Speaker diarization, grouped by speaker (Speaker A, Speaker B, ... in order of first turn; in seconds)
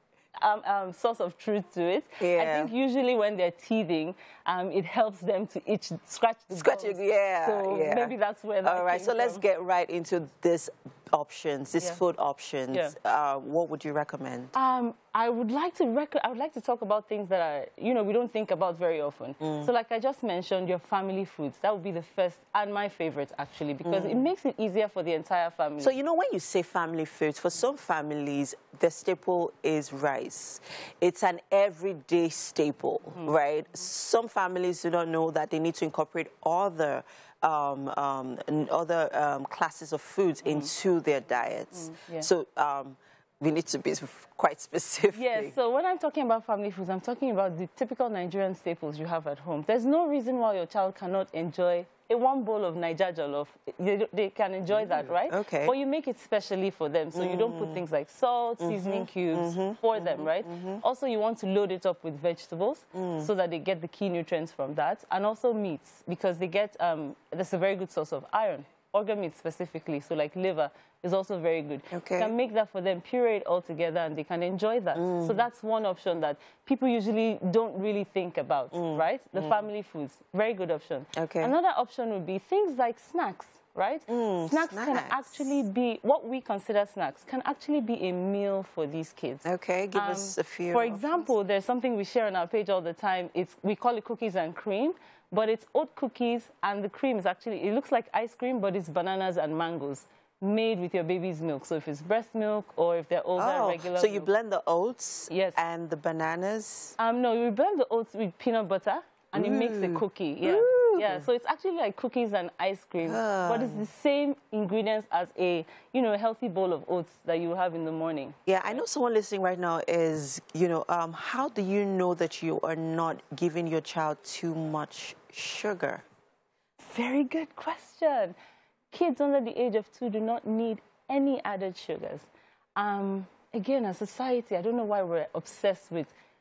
Speaker A: 0.4-9.4, 14.5-26.0, 40.5-40.7, 41.7-42.3, 45.1-104.3, 105.3-105.6, 107.0-118.8, 126.8-128.3, 128.9-136.1
Speaker B: 2.2-2.7, 6.5-14.6, 19.4-19.7, 23.8-24.3, 25.8-45.5, 54.7-55.7, 57.1-57.8, 58.6-60.8, 62.9-63.3, 71.9-72.3, 75.0-75.4, 78.7-79.6, 81.2-81.5, 84.1-85.5, 89.5-91.2, 103.4-107.0, 109.3-111.2, 113.0-113.9, 118.5-126.0